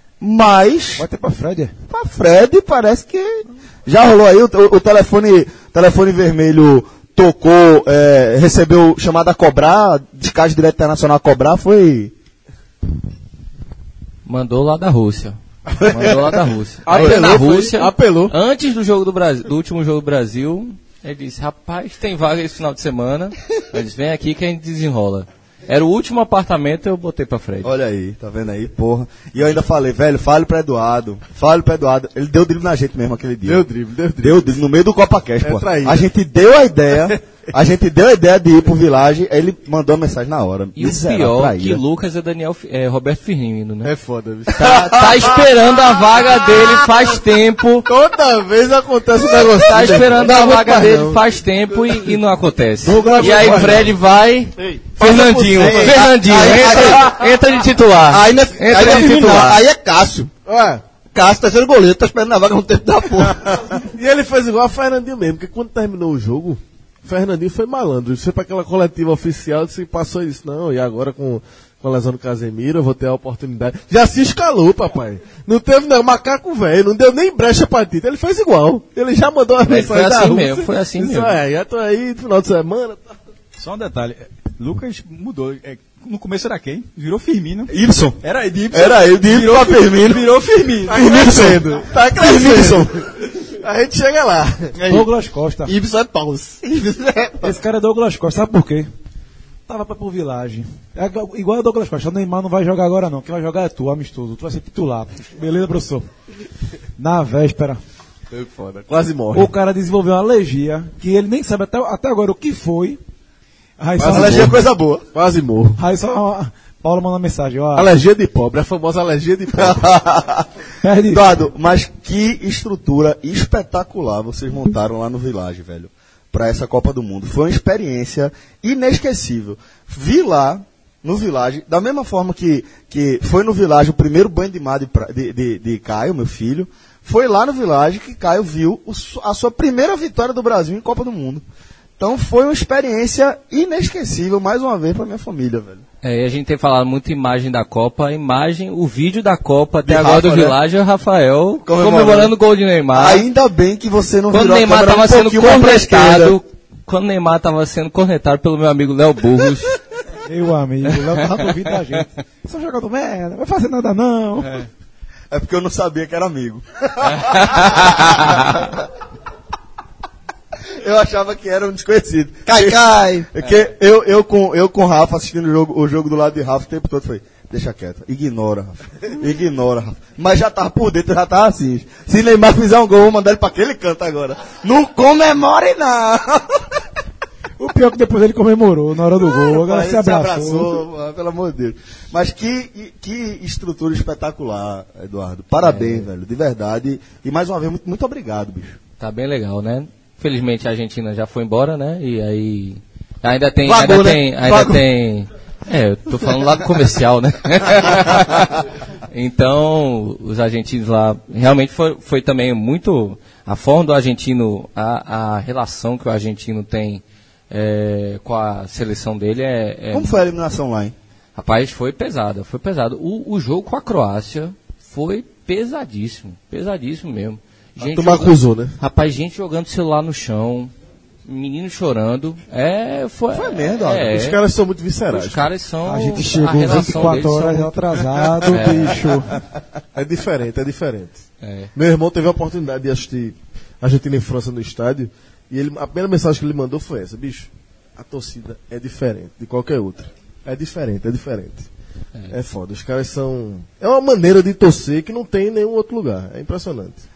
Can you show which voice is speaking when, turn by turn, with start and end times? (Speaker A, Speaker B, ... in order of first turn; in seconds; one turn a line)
Speaker A: 0.2-1.1
Speaker B: 1.0-1.7
Speaker A: 1.9-12.1
Speaker C: 14.2-27.7
Speaker D: 15.8-16.2
Speaker D: 16.9-18.3
Speaker A: 27.6-33.7
Speaker D: 33.4-34.6
Speaker A: 34.2-41.8
Speaker D: 35.4-36.1
Speaker C: 40.8-43.9
Speaker D: 43.8-45.0
Speaker C: 44.5-47.9
Speaker A: 44.6-45.2
Speaker D: 47.9-51.3
Speaker C: 49.3-59.6
Speaker D: 51.8-52.1
Speaker D: 52.8-54.0
Speaker D: 54.6-57.2
Speaker E: 55.7-57.2
Speaker E: 58.1-60.3
Speaker D: 60.5-60.8
Speaker E: 61.1-63.5
Speaker D: 63.8-83.0
Speaker C: 79.6-81.4
Speaker F: 83.6-91.6
Speaker A: 87.7-88.2
Speaker A: 88.7-90.2
Speaker D: 90.9-93.0
Speaker A: 91.0-92.9
Speaker D: 93.6-94.8
Speaker B: 94.9-95.7
Speaker E: 95.7-97.5
Speaker B: 97.4-98.9
Speaker B: 99.7-106.1
Speaker B: 107.0-107.8
Speaker D: 108.3-109.5
Speaker B: 109.3-113.0
Speaker B: 113.8-114.6
Speaker D: 114.0-115.8
Speaker A: 114.0-115.1
Speaker B: 115.8-117.9
Speaker D: 117.8-119.9
Speaker A: 119.6-120.5
Speaker B: 120.8-121.4
Speaker A: 121.1-141.4
Speaker A: 142.0-145.8
Speaker C: 146.0-153.2
Speaker A: 149.8-150.6
Speaker A: 151.7-152.3
Speaker A: 152.9-156.4
Speaker C: 154.3-159.8
Speaker B: 160.3-164.6
Speaker A: 165.3-168.8
Speaker C: 167.2-168.1
Speaker A: 170.8-186.7
Speaker E: 172.5-173.3
Speaker B: 187.6-190.8
Speaker A: 189.3-198.8
Speaker C: 195.6-196.1
Speaker C: 199.0-220.2
Speaker E: 203.7-204.8
Speaker A: 219.9-220.9
Speaker C: 221.4-230.7
Speaker D: 227.8-228.8
Speaker C: 231.2-234.4
Speaker A: 233.3-234.2
Speaker D: 234.1-235.4
Speaker C: 235.1-237.9
Speaker B: 235.8-239.4
Speaker C: 238.5-239.1
Speaker D: 239.9-241.2
Speaker C: 241.4-241.7
Speaker D: 241.8-251.7
Speaker D: 252.3-257.0